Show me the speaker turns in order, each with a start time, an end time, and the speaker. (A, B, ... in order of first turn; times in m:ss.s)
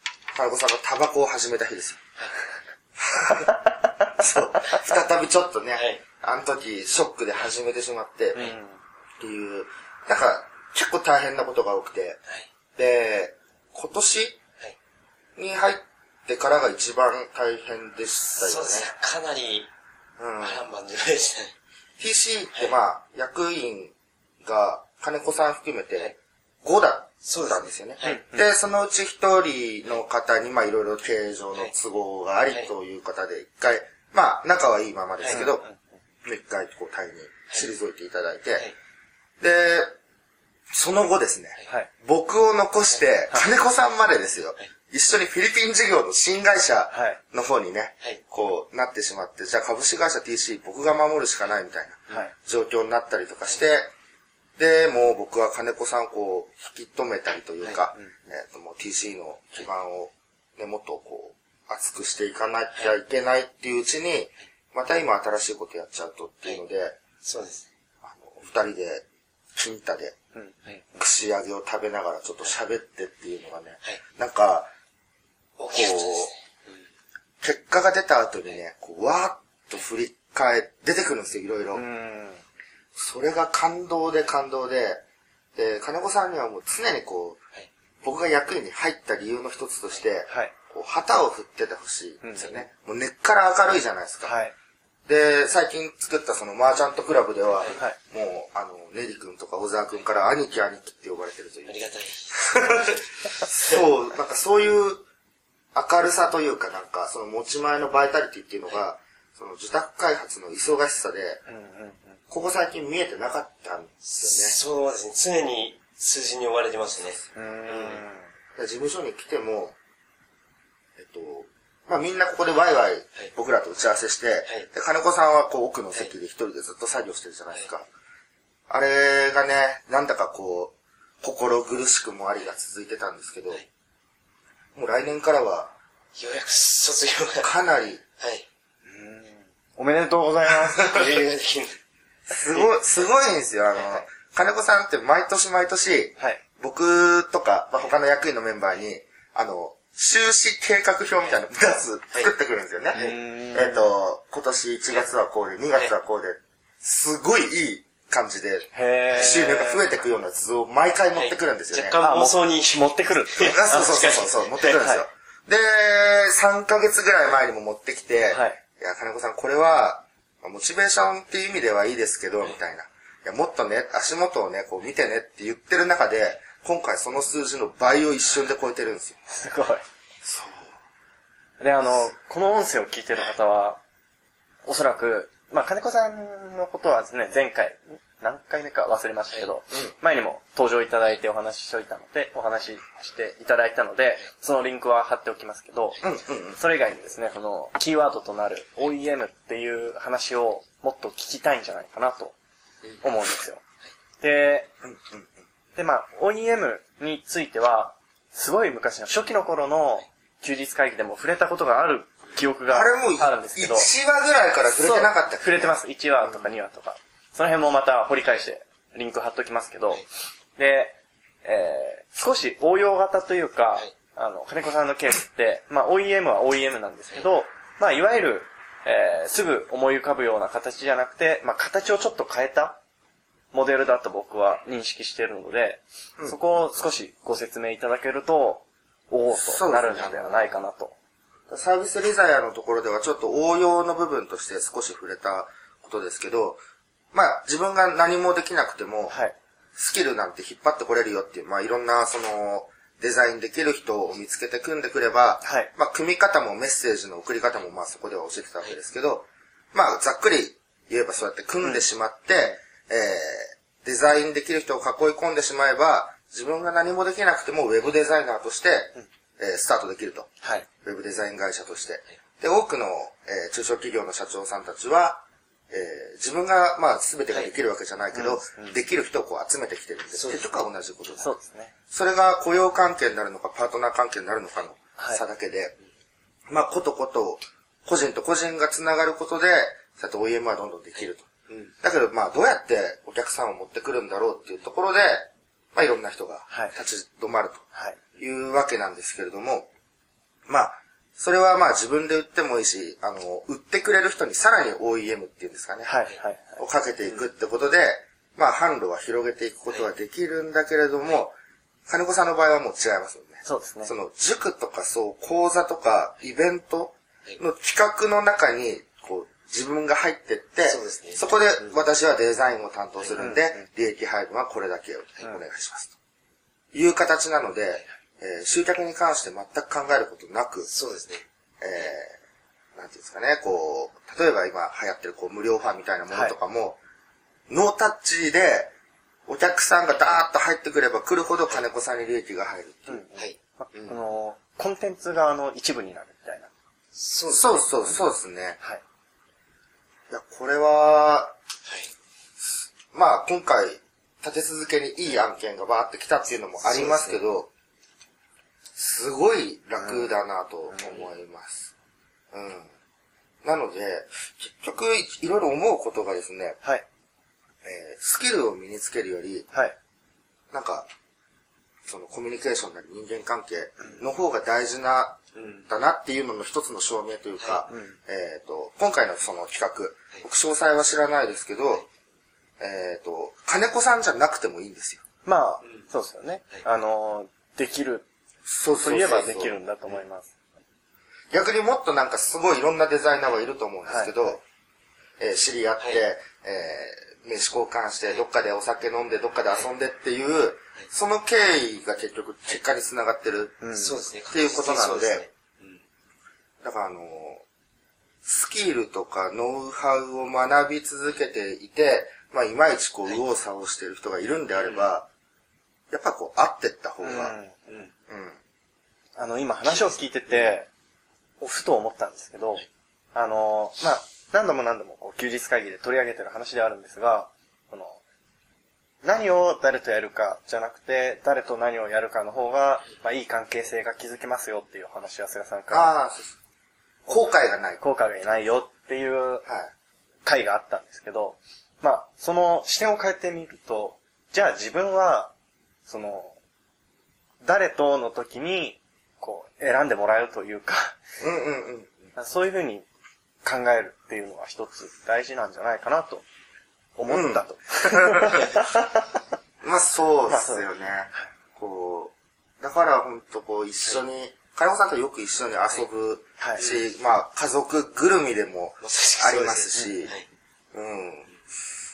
0:00.3-0:02.0 A
0:03.0-0:08.4 A
0:05.7-0:06.0 B
0:08.3-0:08.8 C
0:09.2-0:12.2 A
0:12.8-0:14.4 A
0:15.4-0:18.9 A
0:18.4-0:19.7 B
0:20.2-0:20.7 A
0:20.4-0:21.5 B
0:22.0-0:35.6 A
0:27.2-0:28.2 B
0:28.0-0:28.5 C
0:35.2-0:35.5 B
0:35.3-0:35.8 C
0:36.2-0:38.7 A
0:39.4-0:39.9 A
0:40.7-0:53.9 A
0:46.9-0:47.2 C
0:54.6-1:07.0 A
1:07.2-1:07.7 B
1:08.0-1:10.2 A
1:10.3-1:11.0 C
1:10.9-1:14.7 A
1:15.6-1:16.8 B
1:15.7-1:16.3 A
1:17.4-1:21.8 A
1:21.7-1:22.4 C
1:23.0-1:25.0 A
1:25.6-1:27.4 A
1:28.0-1:34.4 A
1:32.2-1:32.5 C
1:32.4-1:32.6 B
1:34.2-1:34.5 C
1:35.1-1:41.8 A
1:41.7-1:43.8 B
1:42.5-1:45.0 A
1:45.7-1:51.4 A
1:51.5-1:52.2 C
1:52.3-1:54.6 A
1:54.0-1:58.0 B
1:57.3-1:58.3 C
1:58.6-1:59.8 A
2:01.0-2:07.9 A
2:08.7-2:13.6 A
2:14.8-2:15.7 A
2:16.2-2:17.5 B
2:17.4-2:18.0 A
2:18.2-2:18.5 B
2:18.8-2:21.2 C
2:20.8-2:21.7 B
2:22.3-2:42.0 A
2:22.5-2:22.9 B
2:23.7-2:24.0 B
2:32.9-2:33.9 C
2:38.7-2:39.9 C
2:39.1-2:39.4 B
2:41.1-2:44.9 B
2:42.0-2:45.1 C
2:43.4-2:59.2 A
2:48.3-2:48.6 C
2:59.2-2:59.8 C
3:00.2-3:00.7 A
3:01.6-3:03.8 C
3:04.6-3:16.0 C
3:16.0-3:16.6 A
3:16.6-3:22.4 C
3:23.0-3:23.6 C
3:24.2-3:24.7 C
3:24.8-3:25.2 A
3:25.8-3:33.9 C
3:32.7-3:36.5 A
3:34.7-3:40.0 C
3:40.6-3:52.8 C
3:53.5-4:00.9 C
3:59.3-4:00.6 A
4:01.5-4:06.6 A
4:07.1-4:09.2 A
4:09.1-4:09.4 C
4:09.8-4:41.3 A
4:15.4-4:15.7 C
4:38.1-4:38.8 C
4:40.1-4:40.6 B
4:41.2-4:41.7 C
4:41.9-4:45.8 A
4:45.0-4:45.2 C
4:46.5-4:51.3 A
4:51.0-4:51.7 B
4:51.8-4:57.6 A
4:56.5-4:56.7 C
4:57.7-4:58.0 C
4:58.2-4:59.7 A
5:00.5-5:11.4 A
5:05.8-5:06.6 C
5:11.9-5:25.9 A
5:13.4-5:13.9 C
5:20.7-5:21.7 B
5:23.2-5:23.6 C
5:26.7-5:30.7 A
5:30.6-5:31.2 B
5:31.6-5:32.2 A
5:32.8-5:36.8 A
5:37.5-5:38.7 A
5:39.3-5:43.0 A
5:42.9-5:46.5 C
5:43.1-5:44.0 B
5:46.9-5:47.8 B
5:47.3-5:48.6 A
5:50.1-5:51.3 A
5:51.6-5:51.9 B
5:52.9-5:57.5 A
5:56.6-5:57.2 B
5:58.7-6:01.7 A
5:59.8-6:00.1 C
6:00.7-6:01.0 C
6:02.3-6:02.7 A
6:03.4-6:06.6 A
6:07.6-6:09.5 A
6:10.5-6:10.9 A
6:11.9-6:21.8 A
6:15.3-6:15.7 B
6:17.4-6:17.6 B
6:17.7-6:18.0 C
6:22.6-6:25.0 A
6:25.2-6:28.0 C
6:25.6-6:25.9 B
6:28.4-6:29.6 A
6:28.8-6:30.3 C
6:31.3-6:34.4 A
6:33.9-6:34.3 C
6:35.2-6:43.7 A
6:43.6-6:44.0 C
6:43.8-6:45.8 B
6:44.3-6:45.2 A
6:46.6-6:47.4 A
6:48.2-6:55.1 A
6:54.6-6:54.9 B
6:55.9-6:57.4 A
6:57.0-6:57.8 C
6:58.1-6:58.4 A
6:59.2-7:00.7 C
6:59.6-7:00.5 B
7:01.4-7:08.0 C
7:09.0-7:15.9 C
7:15.7-7:16.4 A
7:17.1-7:17.8 A
7:17.8-7:19.4 C
7:19.4-7:19.7 A
7:20.2-7:25.3 C
7:25.9-7:26.4 C
7:27.4-7:31.0 C
7:31.2-7:32.1 A
7:32.2-7:32.8 C
7:33.4-7:36.2 C
7:37.0-7:39.2 C
7:37.1-7:38.6 A
7:39.6-7:50.1 A
7:40.3-7:41.2 C
7:46.4-7:46.6 C
7:46.6-7:46.8 B
7:48.8-7:50.3 B
7:49.8-7:50.1 C
7:50.7-7:51.3 A